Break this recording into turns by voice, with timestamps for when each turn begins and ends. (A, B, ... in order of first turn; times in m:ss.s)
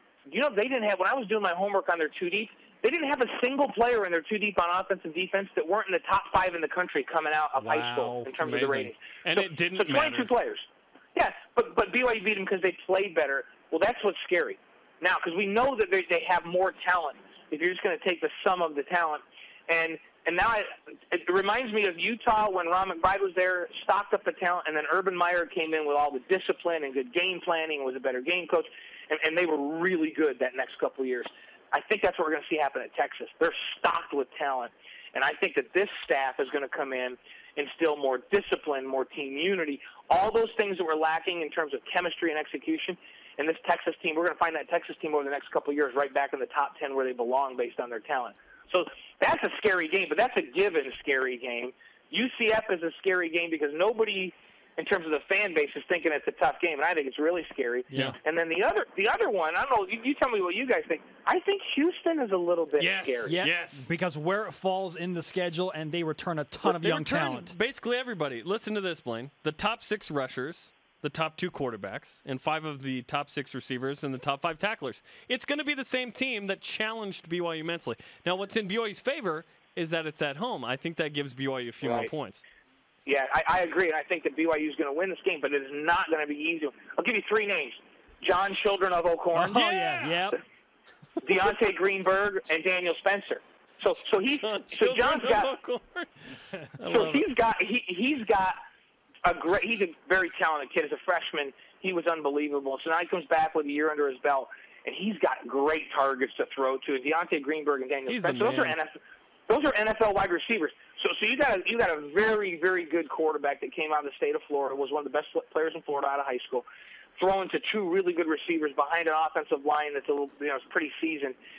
0:00.3-1:03.4 A
0:07.6-0:10.3 B
0:57.9-0:58.2 C
1:02.8-1:03.9 B
1:03.2-1:07.6 C
1:06.6-1:22.4 B
1:21.8-1:22.1 A
1:23.1-1:29.6 A
1:29.3-1:30.4 C
1:29.4-1:30.2 B
1:31.2-1:35.6 A
1:34.4-1:37.3 B
1:36.9-1:38.6 A
1:39.2-1:49.0 A
1:48.1-1:48.8 B
1:49.5-1:56.7 A
1:57.2-2:01.4 A